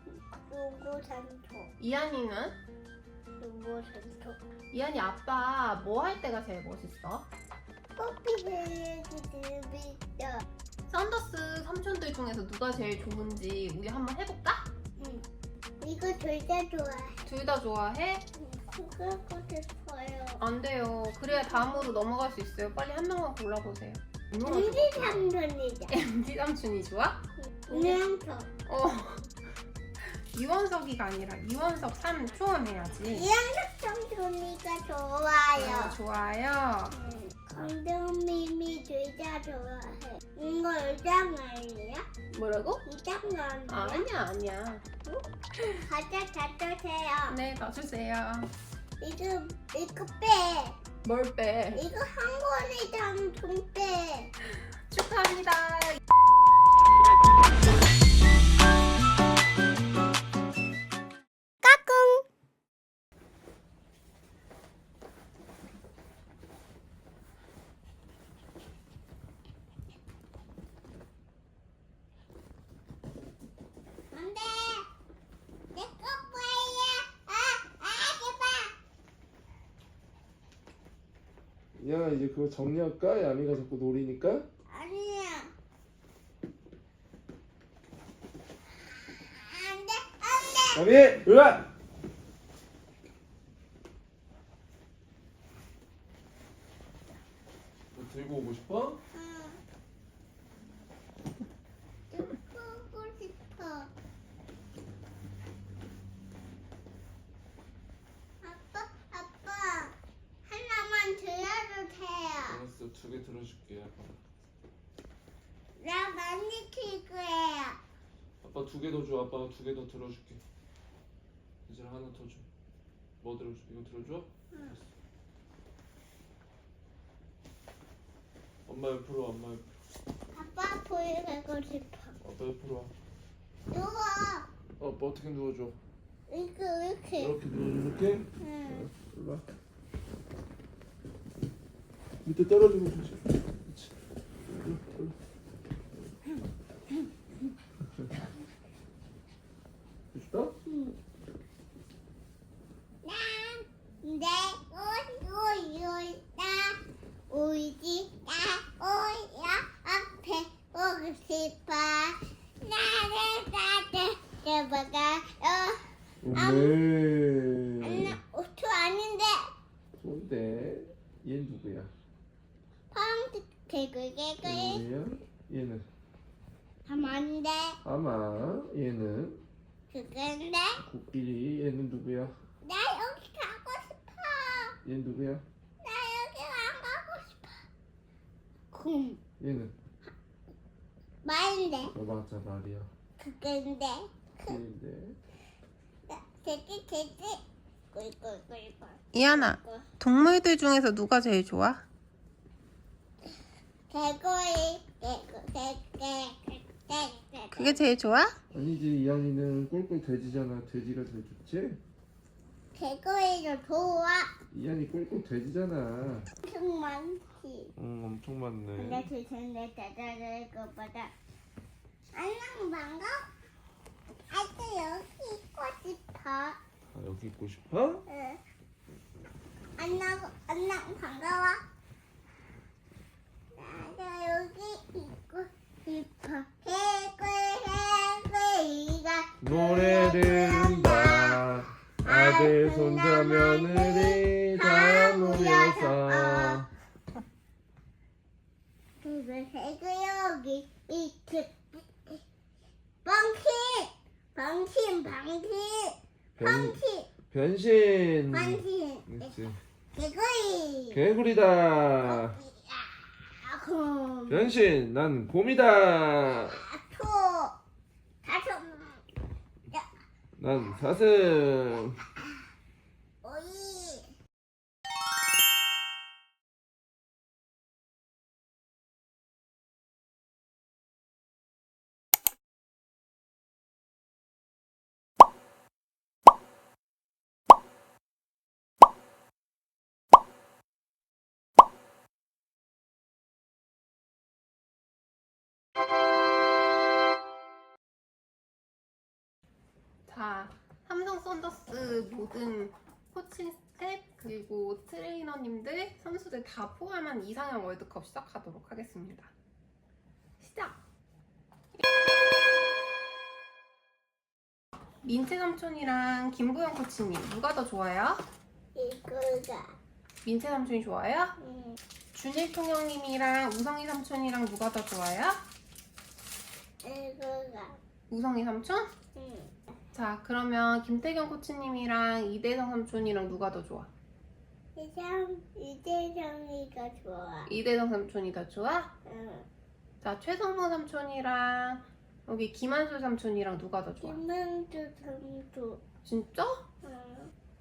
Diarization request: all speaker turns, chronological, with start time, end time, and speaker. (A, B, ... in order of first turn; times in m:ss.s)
0:00.4-0:01.7 A
0:01.8-0:02.6 B
0:03.4-0:04.4 A
0:04.7-0:07.3 B
0:08.0-0:10.4 A
0:10.9-0:14.7 B
0:15.0-0:15.2 A
0:15.8-0:17.2 A
0:17.2-0:18.2 B
0:18.4-0:20.4 A
0:20.4-0:25.3 B
0:21.3-0:22.0 A
0:24.4-0:26.0 A
0:25.9-0:28.0 B
0:27.6-0:28.5 A
0:28.6-0:29.3 B
0:30.3-0:33.3 B
0:33.1-0:36.0 A
0:35.5-0:37.0 B
0:36.9-0:42.0 A
0:42.3-0:42.8 B
0:42.8-0:44.0 A
0:43.7-0:44.8 B
0:45.8-0:47.4 A
0:47.3-0:48.5 B
0:49.0-0:50.8 A
0:51.0-0:51.8 B
0:51.7-0:54.3 A
0:54.8-0:56.0 B
1:01.6-1:02.2 A
1:14.1-1:14.9 A
1:15.7-1:18.7 A
1:21.8-1:24.4 C
1:24.7-1:25.5 A
1:29.2-1:30.8 A
1:30.7-1:31.7 C
1:37.9-1:39.0 C
1:39.1-1:39.6 A
1:42.1-1:43.9 A
1:48.4-1:52.6 A
1:52.5-1:54.2 C
1:55.8-1:57.8 A
1:58.4-2:00.4 C
2:01.6-2:02.5 C
2:03.2-2:04.8 C
2:04.5-2:04.8 A
2:08.6-2:09.7 C
2:10.3-2:12.1 A
2:12.2-2:12.9 C
2:13.7-2:14.5 A
2:14.8-2:15.8 C
2:16.3-2:17.4 A
2:17.2-2:19.4 C
2:18.4-2:18.9 A
2:22.2-2:23.9 C
2:24.5-2:25.2 C
2:30.1-2:30.5 C
2:30.6-2:30.9 A
2:33.0-2:46.8 A
2:46.2-2:48.2 C
2:47.8-2:49.5 A
2:50.0-2:51.9 C
2:52.9-2:54.8 A
2:54.4-2:55.8 C
2:56.8-2:57.8 A
2:57.8-2:59.4 C
2:59.9-3:00.8 A
3:00.8-3:02.3 C
3:02.6-3:04.8 A
3:04.8-3:05.4 C
3:05.8-3:07.6 A
3:08.7-3:09.2 A
3:09.4-3:09.7 C
3:11.2-3:11.9 A
3:11.9-3:12.9 C
3:13.2-3:14.6 A
3:14.4-3:15.2 C
3:16.1-3:17.4 A
3:17.9-3:19.8 A
3:19.1-3:21.8 B
3:23.9-3:27.8 A
3:27.5-3:28.4 B
3:28.5-3:31.8 C
3:32.7-3:34.3 A
3:34.5-3:36.3 C
3:36.4-3:37.7 A
3:37.8-3:39.1 C
3:38.8-3:41.1 A
3:42.1-3:43.3 A
3:44.3-3:46.6 A
3:46.9-3:48.0 C
3:48.1-3:48.4 A
3:49.8-3:51.6 A
3:53.5-4:01.4 A
3:59.4-4:06.7 C
4:02.0-4:06.6 A
4:09.0-4:12.2 A
4:13.0-4:17.1 A
4:16.4-4:19.6 C
4:18.3-4:19.3 A
4:19.9-4:21.0 A
4:20.9-4:22.4 C
4:22.0-4:24.5 A
4:24.3-4:26.6 C
4:26.4-4:27.5 A
4:28.2-4:29.0 A
4:30.4-4:32.0 C
4:33.2-4:34.1 A
5:00.0-5:09.3 B
5:10.4-5:10.8 B
5:15.0-5:18.2 B
5:18.7-5:19.8 A
5:20.2-5:21.4 B
5:21.4-5:21.8 A
5:22.1-5:25.4 B
5:26.8-5:27.8 A
5:28.1-5:28.9 B
5:29.1-5:29.5 A
5:29.9-5:33.9 B
5:34.8-5:37.5 A
5:37.5-5:38.9 B
5:39.0-5:39.4 A
5:40.0-5:44.2 B
5:44.0-5:45.8 A
5:46.0-5:46.6 B
5:46.8-5:47.3 A